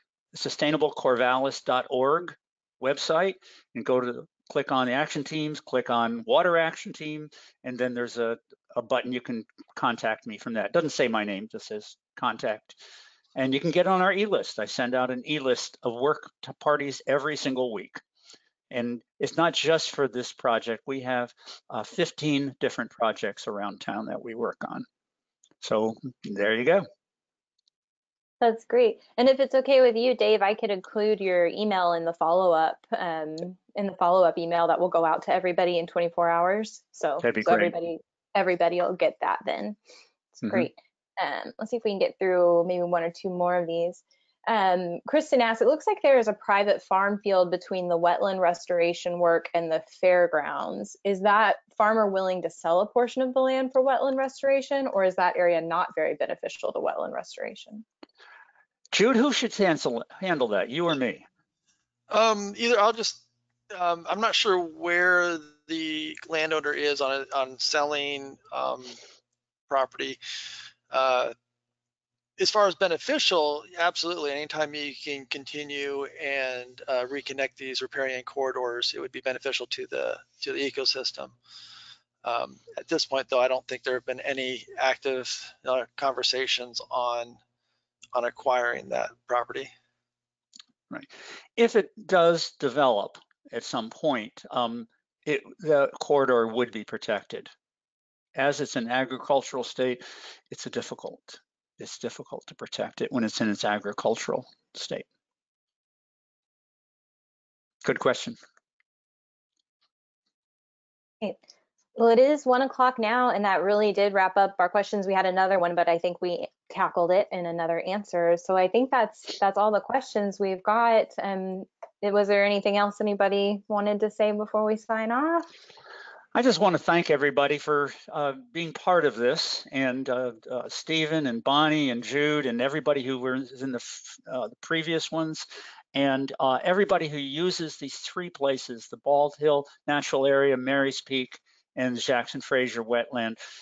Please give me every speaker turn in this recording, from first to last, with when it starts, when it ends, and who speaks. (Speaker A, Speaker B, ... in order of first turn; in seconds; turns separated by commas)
Speaker A: 0.3-12.8, Speaker A: 13.3-18.0, Speaker A: 18.7-24.9, Speaker A: 25.6-26.9, Speaker B: 28.4-39.8, Speaker A: 37.2-37.7, Speaker B: 40.3-57.9, Speaker A: 58.9-61.2, Speaker C: 62.1-69.0, Speaker C: 69.7-70.2, Speaker C: 70.9-71.3, Speaker C: 72.4-81.4, Speaker C: 82.2-87.4, Speaker C: 88.1-89.7, Speaker A: 90.9-97.5, Speaker A: 98.3-105.1, Speaker A: 107.8-108.4, Speaker B: 112.0-125.5, Speaker A: 126.3-143.4